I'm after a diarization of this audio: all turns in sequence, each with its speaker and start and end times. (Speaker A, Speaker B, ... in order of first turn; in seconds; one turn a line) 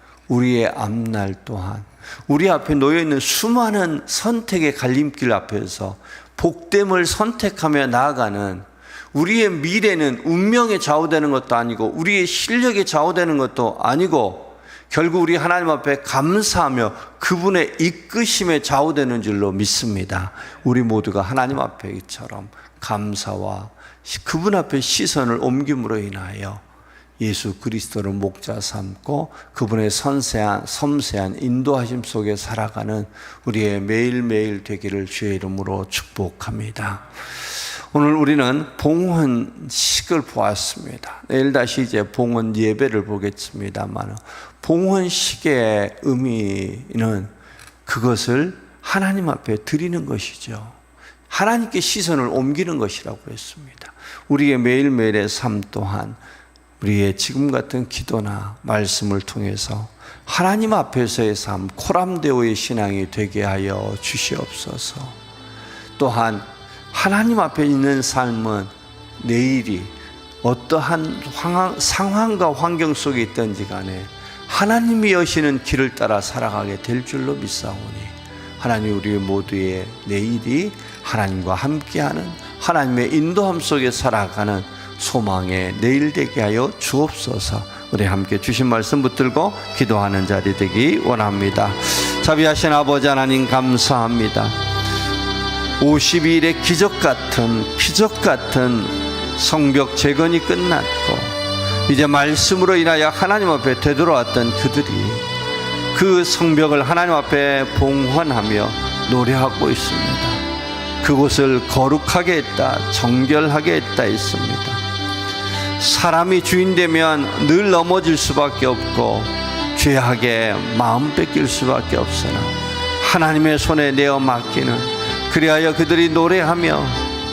Speaker A: 0.3-26.6
Speaker A: 27.2-37.1
Speaker A: 37.9-47.3
Speaker A: 47.9-50.8
Speaker A: 51.3-56.2
Speaker A: 56.8-65.2
Speaker A: 66.0-94.5
Speaker A: 95.8-105.2
Speaker A: 105.9-110.4
Speaker A: 111.0-114.8
Speaker A: 115.8-127.1